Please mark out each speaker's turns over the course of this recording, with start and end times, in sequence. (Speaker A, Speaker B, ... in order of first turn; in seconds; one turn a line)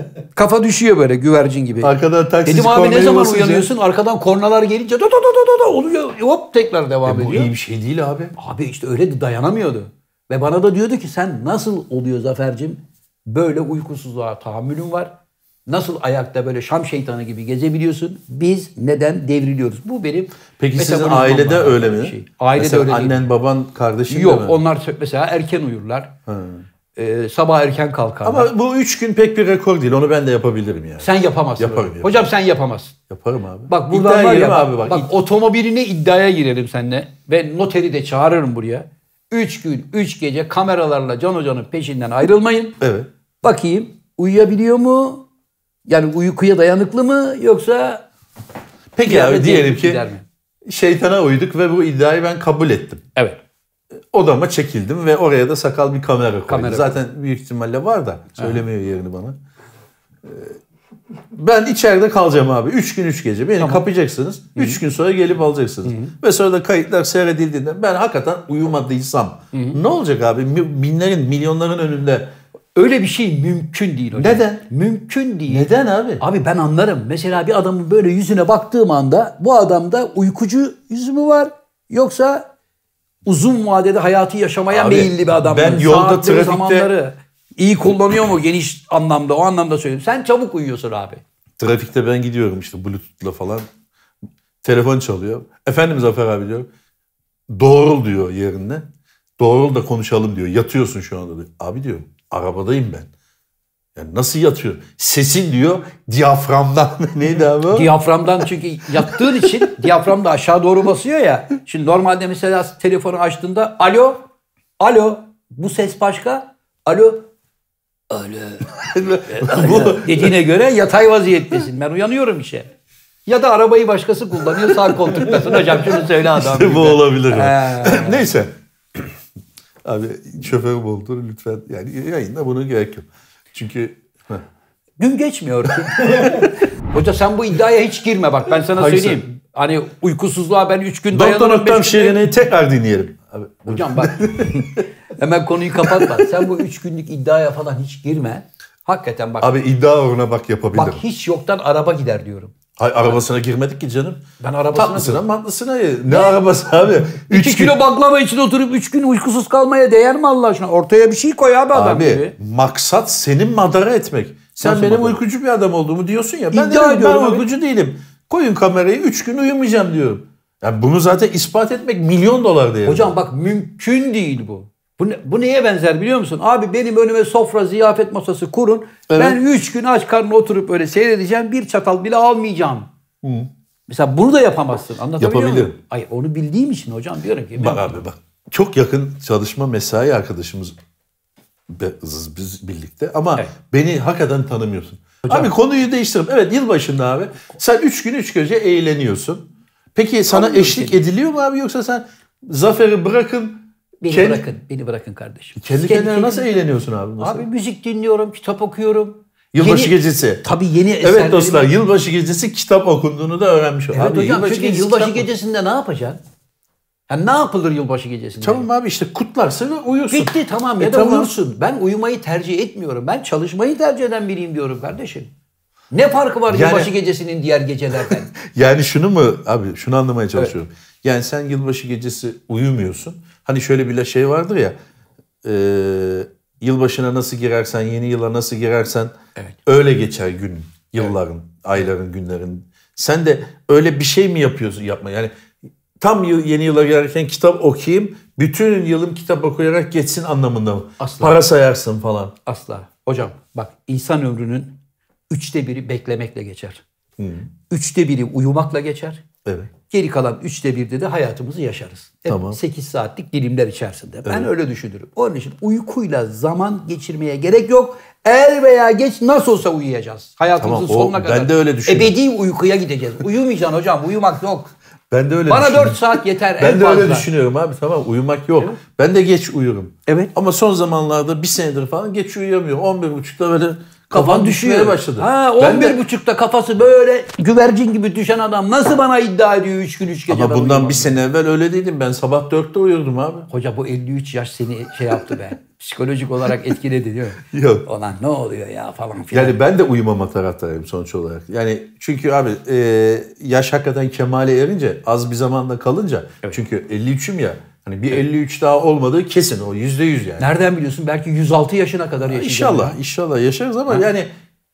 Speaker A: 0.3-1.9
Speaker B: 1.8-3.7
Speaker A: 2.4-7.5
Speaker B: 7.0-8.3
Speaker A: 8.3-15.1
Speaker A: 15.7-23.2
Speaker B: 20.6-24.6
Speaker A: 24.1-26.1
Speaker B: 26.2-26.6
Speaker A: 26.9-28.5
Speaker B: 28.2-32.3
Speaker A: 31.0-32.9
Speaker B: 33.1-35.1
Speaker A: 33.7-42.8
Speaker B: 42.8-43.1
Speaker A: 43.4-45.2
Speaker A: 45.9-48.0
Speaker B: 48.9-50.0
Speaker A: 49.0-50.2
Speaker B: 50.7-53.0
Speaker B: 54.1-59.4
Speaker A: 56.5-57.0
Speaker A: 58.4-58.6
Speaker B: 60.2-60.5
Speaker B: 61.3-72.3
Speaker A: 63.6-63.8
Speaker A: 64.5-64.8
Speaker A: 65.8-66.1
Speaker A: 69.5-69.8
Speaker A: 72.7-82.5
Speaker B: 74.1-74.6
Speaker B: 75.5-76.2
Speaker A: 83.2-91.2
Speaker B: 84.7-86.9
Speaker B: 91.6-93.7
Speaker B: 94.6-96.7
Speaker B: 97.5-98.9
Speaker B: 99.4-103.1
Speaker B: 103.9-107.9
Speaker A: 107.7-114.2
Speaker A: 114.8-117.3
Speaker A: 118.1-122.7
Speaker B: 118.9-120.3
Speaker A: 123.2-128.2
Speaker B: 124.7-129.1
Speaker B: 129.8-134.4
Speaker A: 135.0-142.2
Speaker B: 138.7-139.3
Speaker B: 141.1-144.8
Speaker A: 143.7-149.5
Speaker B: 145.8-146.3
Speaker B: 149.4-151.0
Speaker A: 150.7-152.5
Speaker B: 152.8-154.2
Speaker A: 154.4-155.2
Speaker B: 154.7-157.8
Speaker A: 156.1-156.4
Speaker A: 157.3-162.3
Speaker B: 161.7-173.1
Speaker A: 164.6-165.2
Speaker A: 166.5-167.4
Speaker A: 172.8-182.9
Speaker B: 179.1-179.4
Speaker B: 183.2-183.5
Speaker A: 183.9-188.0
Speaker B: 185.2-185.8
Speaker B: 187.6-190.8
Speaker B: 191.7-204.4
Speaker A: 195.2-195.5
Speaker A: 200.3-201.0
Speaker A: 204.0-206.5
Speaker B: 205.6-207.4
Speaker A: 207.2-211.7
Speaker B: 209.5-210.4
Speaker B: 211.0-215.3
Speaker A: 213.9-216.2
Speaker A: 217.1-218.7
Speaker B: 218.4-221.3
Speaker A: 220.1-225.3
Speaker A: 225.9-228.3
Speaker B: 226.5-226.9
Speaker B: 228.0-234.8
Speaker B: 235.4-239.1
Speaker B: 239.7-245.3
Speaker B: 246.0-252.3
Speaker A: 251.0-251.3
Speaker A: 252.4-254.8
Speaker A: 255.3-256.8
Speaker B: 257.2-257.5
Speaker A: 257.7-259.2
Speaker B: 259.4-259.7
Speaker A: 259.9-274.7
Speaker B: 262.3-262.6
Speaker B: 264.2-264.5
Speaker B: 270.6-272.1
Speaker B: 275.1-286.0
Speaker A: 275.5-277.3
Speaker A: 280.1-280.3
Speaker A: 284.1-291.2
Speaker B: 290.3-293.5
Speaker A: 293.5-299.6
Speaker B: 297.4-297.8
Speaker B: 299.3-310.4
Speaker A: 310.4-313.0
Speaker B: 312.2-314.3